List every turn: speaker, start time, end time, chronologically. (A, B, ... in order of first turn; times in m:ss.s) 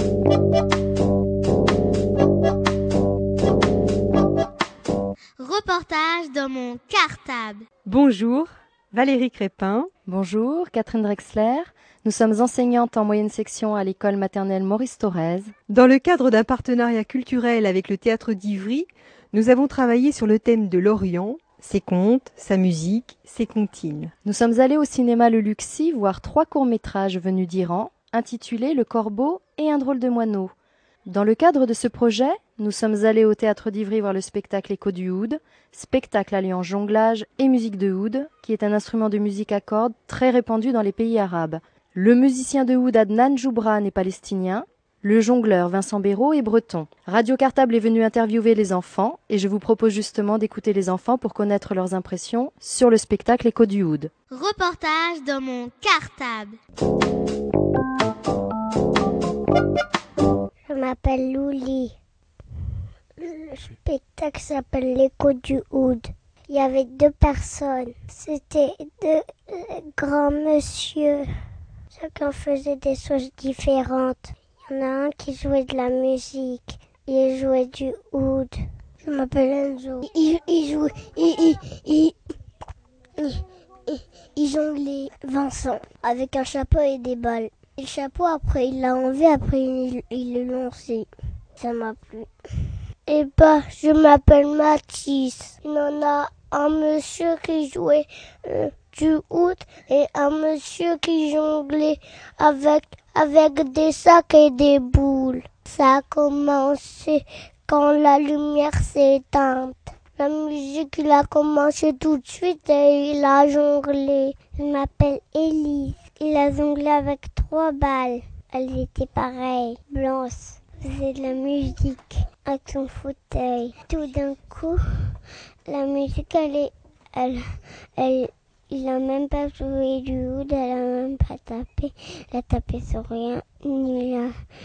0:05.4-0:07.6 A
0:07.8-0:09.9 B
0:10.0-0:15.5 C
0:15.7-0:24.1 B
0:24.2-0:30.5 C
0:31.1-0:54.1 C
0:54.3-0:56.6 A
1:00.7-1:02.0 D
1:03.2-1:11.3 D
1:11.9-1:22.2 D
1:23.2-2:05.2 D
2:05.7-2:14.4 D